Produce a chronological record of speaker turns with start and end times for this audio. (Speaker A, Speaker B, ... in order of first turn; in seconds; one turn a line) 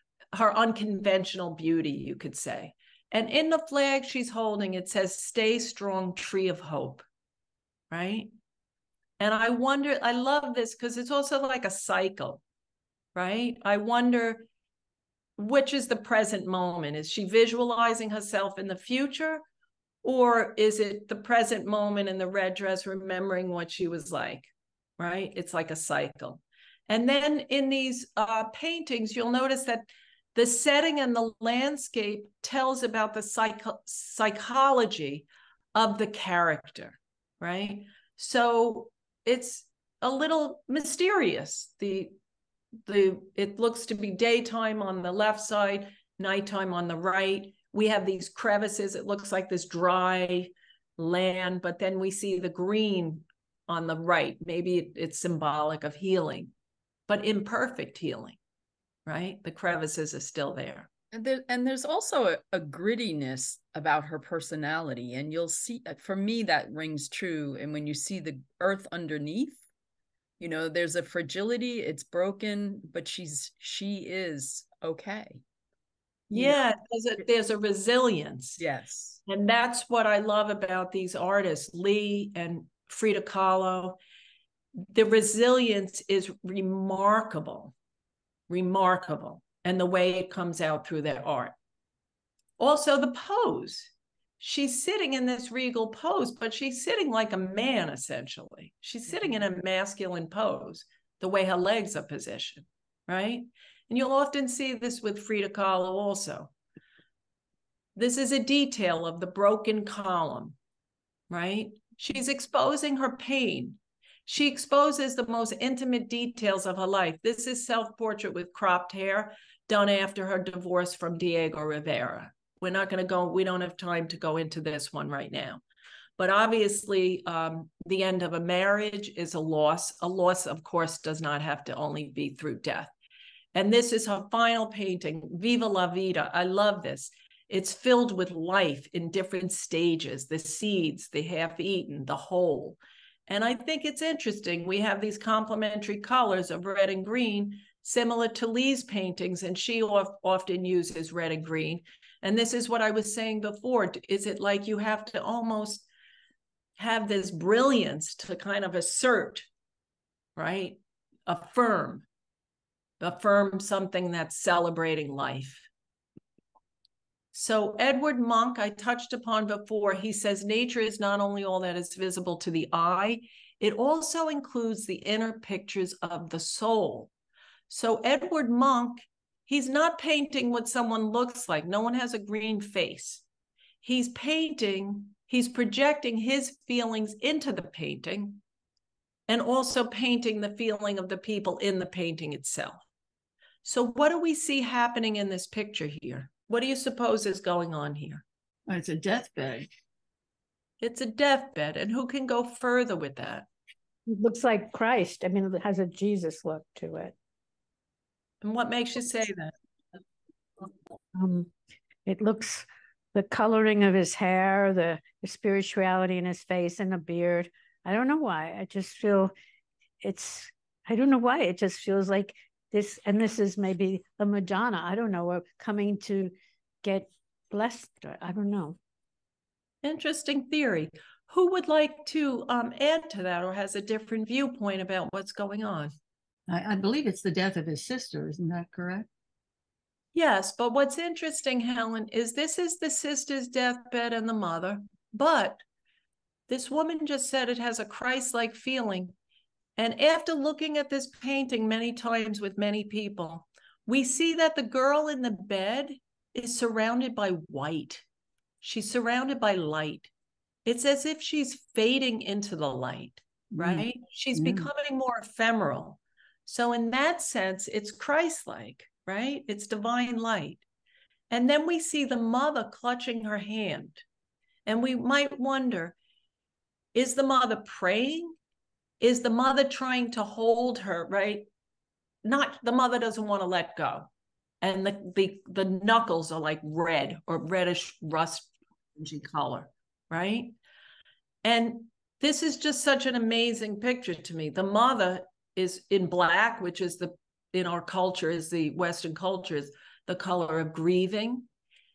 Speaker A: 0.3-7.0
Speaker A: 7.9-8.3
Speaker A: 9.2-12.4
Speaker A: 13.1-14.4
Speaker A: 15.4-19.4
Speaker A: 20.0-42.1
Speaker A: 42.9-56.5
Speaker A: 57.1-58.4
Speaker A: 59.0-60.9
Speaker B: 61.1-69.6
Speaker B: 70.4-75.4
Speaker A: 76.3-78.6
Speaker B: 76.3-76.6
Speaker B: 78.6-79.2
Speaker A: 79.2-84.0
Speaker A: 84.9-87.7
Speaker A: 88.5-91.5
Speaker A: 92.6-106.5
Speaker A: 107.9-110.6
Speaker A: 111.3-125.6
Speaker A: 126.2-132.9
Speaker A: 133.5-155.8
Speaker A: 156.8-159.5
Speaker A: 160.3-162.1
Speaker A: 163.0-165.7
Speaker A: 167.3-177.1
Speaker A: 177.7-183.2
Speaker A: 183.8-188.4
Speaker A: 189.3-192.8
Speaker A: 193.6-198.2
Speaker C: 198.7-199.7
Speaker A: 200.8-203.5
Speaker D: 204.1-207.1
Speaker A: 208.4-209.5
Speaker D: 211.1-211.5
Speaker D: 212.1-219.3
Speaker D: 220.0-228.8
Speaker A: 229.8-235.9
Speaker C: 236.5-239.1
Speaker A: 240.1-245.6
Speaker A: 246.5-249.1
Speaker A: 249.8-258.0
Speaker A: 258.6-260.1
Speaker A: 260.6-270.6
Speaker C: 263.5-264.7
Speaker A: 271.3-274.0
Speaker A: 274.6-275.9
Speaker A: 276.9-278.4
Speaker A: 279.0-281.5
Speaker A: 282.2-284.1
Speaker A: 284.6-290.5
Speaker A: 291.4-301.5